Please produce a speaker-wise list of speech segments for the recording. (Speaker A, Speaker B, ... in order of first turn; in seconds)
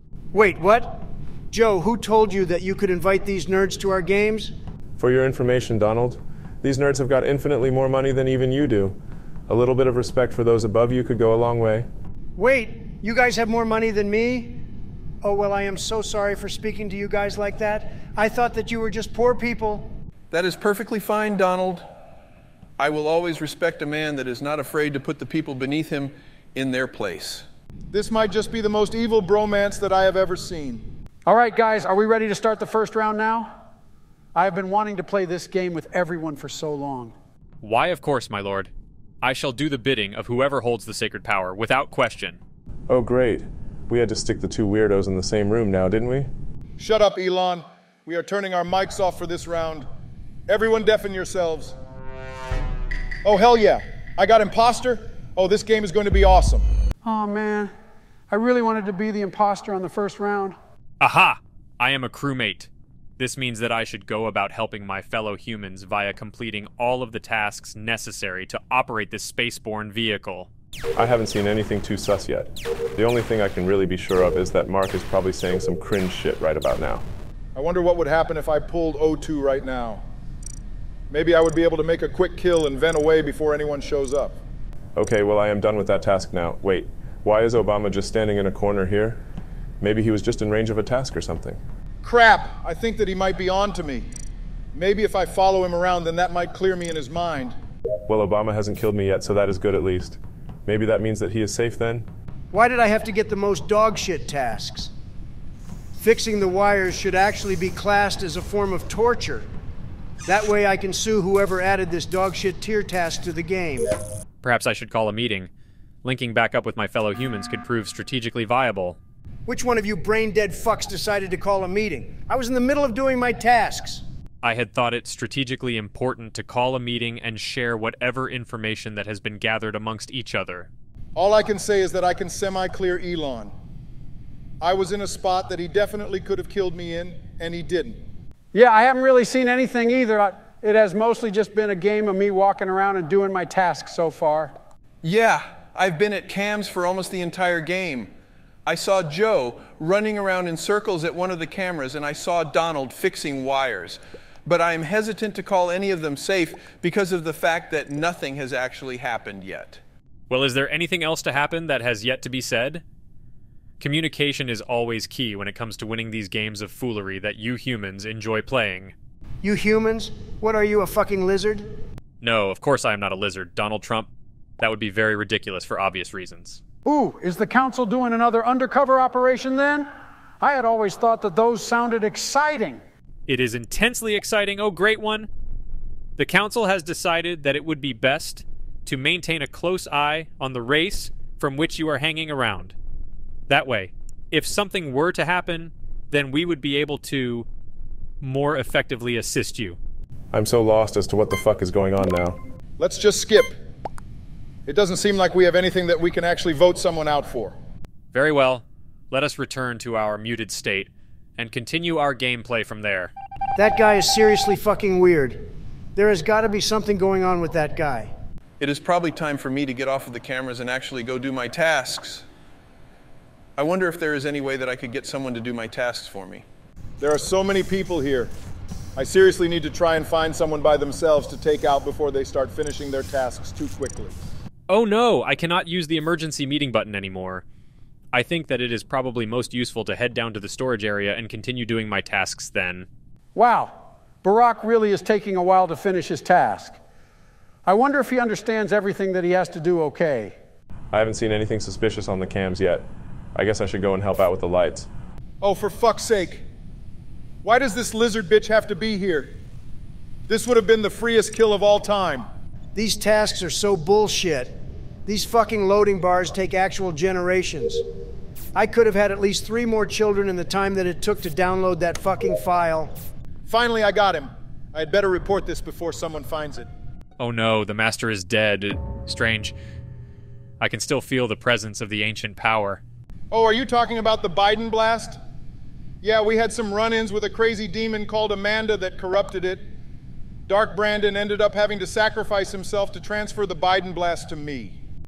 Speaker A: 0.3-4.5, 12.4-14.6, 15.2-19.9, 102.5-104.9, 106.0-109.5, 110.3-113.9, 119.5-124.0, 169.4-171.7, 213.6-218.1, 262.8-267.8, 268.6-272.9
Speaker B: 5.0-9.0, 9.5-11.9, 42.9-46.3, 71.0-77.0, 85.0-89.2, 89.8-91.6, 98.1-102.1, 200.3-202.4, 250.9-254.9
Speaker C: 20.3-21.8, 22.8-27.4, 145.0-148.1, 148.7-159.8, 218.6-222.2, 223.6-226.4
Speaker D: 27.9-30.8, 46.8-49.9, 50.5-51.8, 53.2-56.6, 77.5-80.0, 81.1-84.4, 92.0-94.0, 94.7-97.5, 131.2-133.5, 134.6-138.0, 202.8-203.5, 204.7-207.5, 227.0-228.3, 229.0-234.2, 255.4-256.4, 257.4-259.3, 260.3-262.3, 273.5-276.7, 283.3-285.2, 286.0-289.6, 290.5-294.8
Speaker E: 31.3-33.5, 34.4-37.1, 57.0-57.7, 58.3-60.6, 138.5-144.5, 176.8-179.9, 180.4-182.8, 243.3-246.8, 247.7-250.3
Speaker F: 37.6-38.7, 39.2-42.4, 61.0-70.5, 114.4-115.5, 116.0-119.0, 124.4-130.7, 160.3-162.8, 163.8-168.9, 172.2-174.1, 174.6-176.6, 183.3-185.3, 186.2-192.8, 193.5-197.5, 198.2-199.8, 208.1-213.1, 234.7-237.4, 238.1-242.9, 277.2-279.6, 280.6-282.8